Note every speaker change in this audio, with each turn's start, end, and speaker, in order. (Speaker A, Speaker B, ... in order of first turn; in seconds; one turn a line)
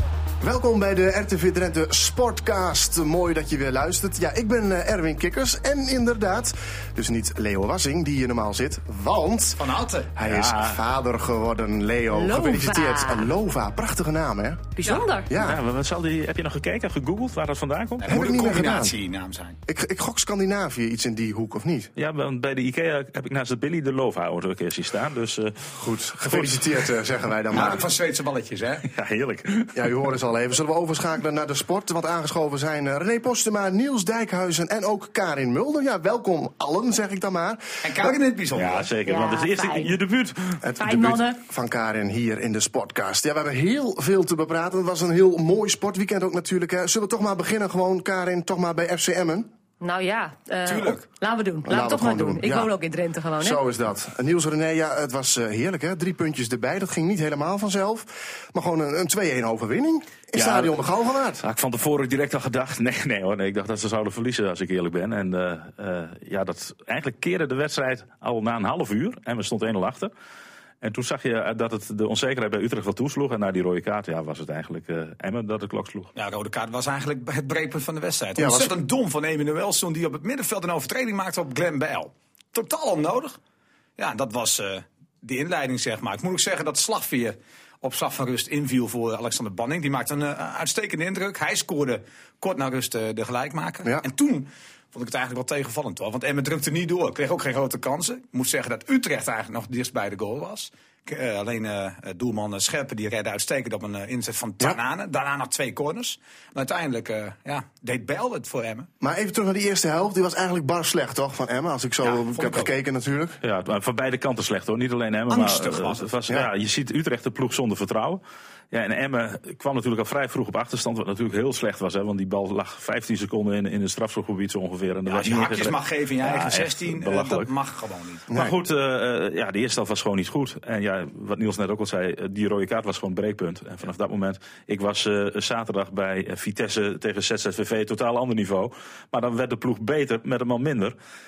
Speaker A: 0.4-9.6
Speaker B: 9.6-10.1
Speaker A: 10.2-14.7
Speaker C: 10.3-10.8
Speaker D: 12.1-13.3
Speaker D: 14.8-15.3
Speaker A: 15.3-15.6
Speaker C: 15.4-18.1
Speaker B: 18.0-19.6
Speaker A: 18.1-18.9
Speaker A: 19.6-21.9
Speaker C: 21.9-26.8
Speaker A: 25.8-27.8
Speaker B: 27.5-28.9
Speaker C: 28.9-29.8
Speaker A: 29.7-38.1
Speaker B: 37.8-38.9
Speaker C: 38.5-40.6
Speaker D: 39.0-40.0
Speaker A: 40.6-49.5
Speaker D: 40.8-41.4
Speaker D: 49.8-53.6
Speaker B: 50.6-51.1
Speaker A: 51.6-52.7
Speaker A: 53.4-61.4
Speaker C: 60.4-60.8
Speaker C: 61.4-70.1
Speaker C: 70.8-76.1
Speaker B: 76.2-83.4
Speaker A: 78.4-78.7
Speaker B: 84.0-108.9
Speaker A: 109.0-113.4
Speaker B: 112.0-112.7
Speaker C: 113.4-127.5
Speaker B: 115.3-116.1
Speaker B: 125.1-128.3
Speaker A: 128.3-128.5
Speaker C: 128.3-140.9